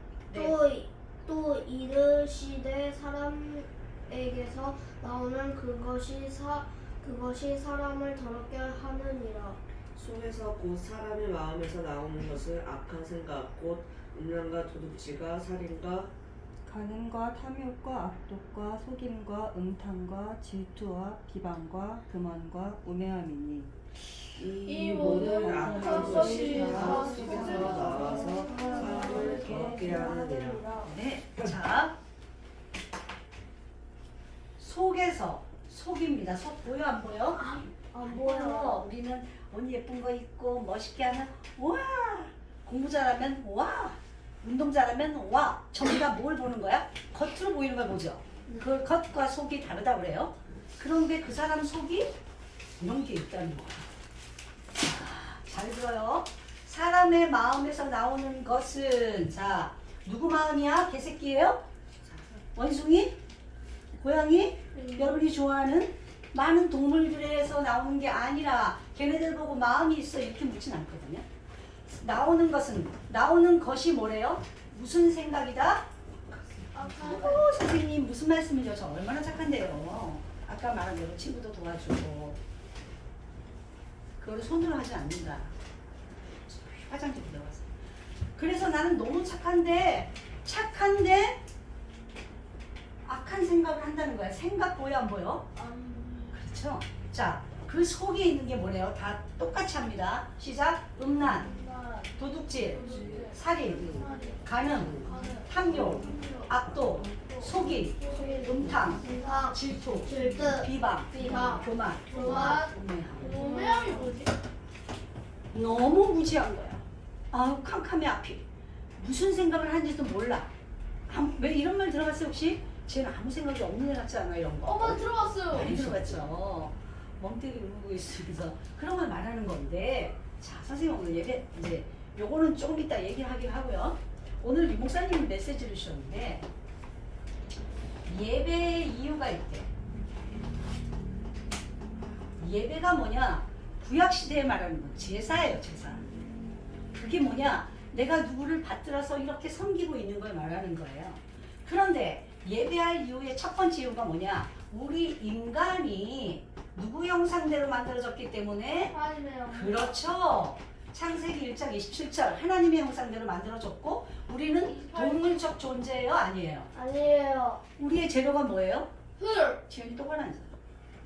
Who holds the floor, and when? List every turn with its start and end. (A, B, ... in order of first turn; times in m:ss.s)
0:00.3-0:09.6 A
0:09.9-0:16.1 B
0:16.6-0:30.9 C
0:24.4-0:30.7 B
0:24.6-0:28.2 D
0:28.3-0:29.8 A
0:30.8-0:31.9 E
0:34.6-0:37.4 E
0:37.4-0:38.9 A
0:38.0-0:52.1 E
0:52.8-0:53.8 E
0:54.8-1:01.6 E
1:02.5-1:03.2 E
1:04.0-1:11.2 E
1:04.7-1:05.2 A
1:11.9-1:15.9 E
1:16.7-1:17.3 D
1:16.7-1:17.4 A
1:16.8-1:22.4 E
1:24.2-1:25.5 E
1:26.5-1:27.7 E
1:28.4-1:31.4 E
1:33.0-1:35.5 E
1:35.5-1:36.4 D
1:36.3-1:41.5 E
1:41.3-1:49.2 D
1:42.2-1:53.4 E
1:42.9-1:44.1 B
1:44.8-1:45.2 B
1:48.0-1:54.1 A
1:52.1-1:54.3 D
1:55.5-1:58.4 E
1:59.0-2:00.5 E
2:01.1-2:16.4 E
2:04.6-2:05.9 D
2:18.0-2:19.7 E
2:22.4-2:26.1 E
2:26.9-2:38.9 E
2:38.9-2:40.0 D
2:39.5-2:46.7 E
2:44.6-2:45.4 D
2:46.7-2:47.6 A
2:47.8-2:48.9 E
2:49.2-2:49.6 D
2:49.7-2:50.6 E